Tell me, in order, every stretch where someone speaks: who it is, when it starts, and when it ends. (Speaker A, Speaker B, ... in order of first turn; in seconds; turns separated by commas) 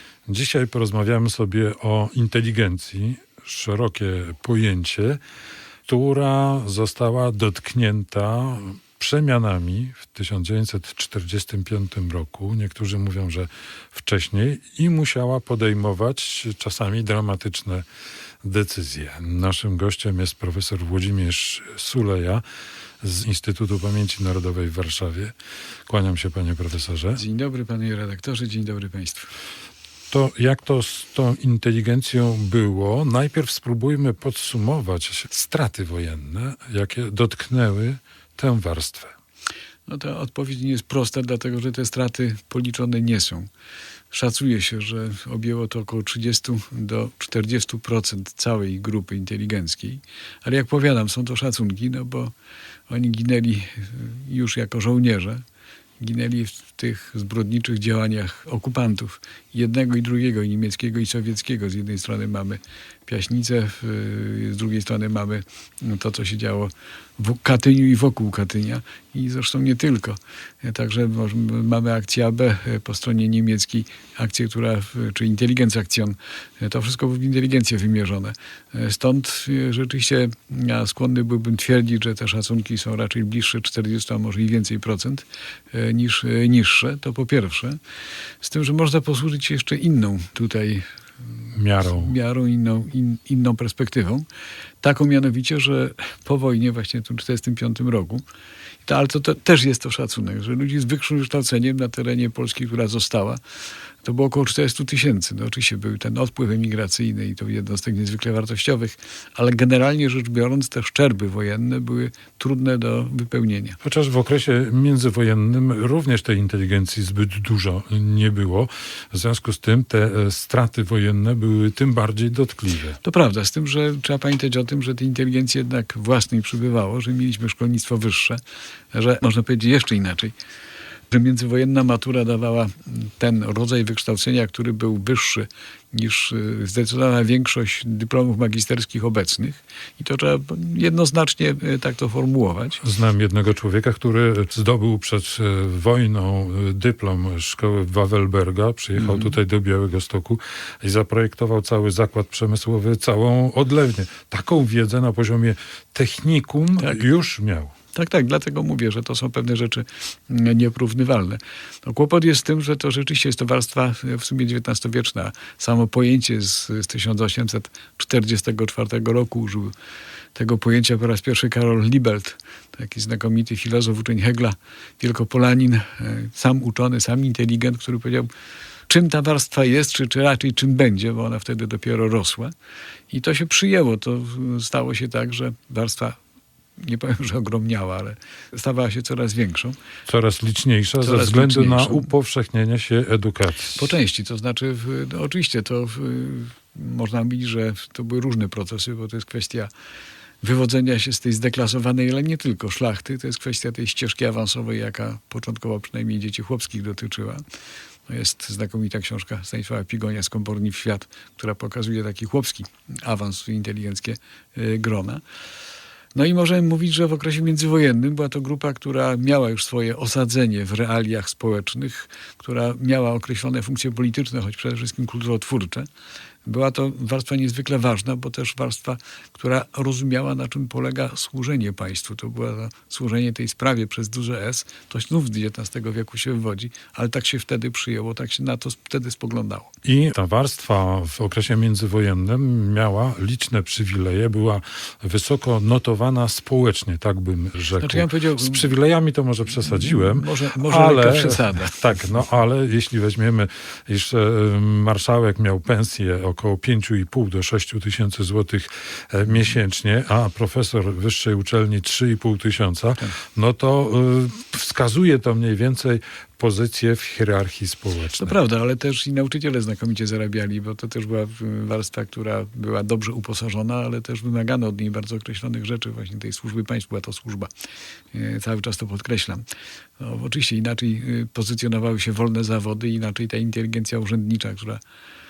Speaker A: 0.3-5.2, Speaker A: 5.9-17.9, Speaker A: 18.4-22.4, Speaker A: 23.0-25.3, Speaker A: 25.9-27.2, Speaker B: 27.2-29.3, Speaker A: 30.1-39.1, Speaker B: 39.9-43.5, Speaker B: 44.1-52.3, Speaker B: 52.9-55.4, Speaker B: 56.0-87.8, Speaker B: 88.4-90.8, Speaker A: 91.5-92.1, Speaker B: 91.9-94.3, Speaker B: 94.8-98.2, Speaker B: 98.8-103.4, Speaker B: 104.0-113.8, Speaker A: 113.8-123.0, Speaker B: 123.0-128.4, Speaker B: 128.9-130.3, Speaker B: 131.1-142.8, Speaker A: 142.8-157.8, Speaker B: 149.0-149.3, Speaker B: 157.9-169.7, Speaker B: 170.3-178.3, Speaker B: 178.9-182.5, Speaker B: 183.1-186.2, Speaker B: 186.8-189.8, Speaker A: 190.1-193.9, Speaker B: 191.0-192.1, Speaker B: 193.8-199.7, Speaker B: 200.4-207.4, Speaker B: 208.1-215.2, Speaker B: 216.1-225.9, Speaker B: 226.4-239.7, Speaker A: 239.8-268.4, Speaker B: 247.8-248.7, Speaker B: 249.7-251.8, Speaker B: 268.2-277.5, Speaker B: 278.1-279.4, Speaker B: 280.0-284.8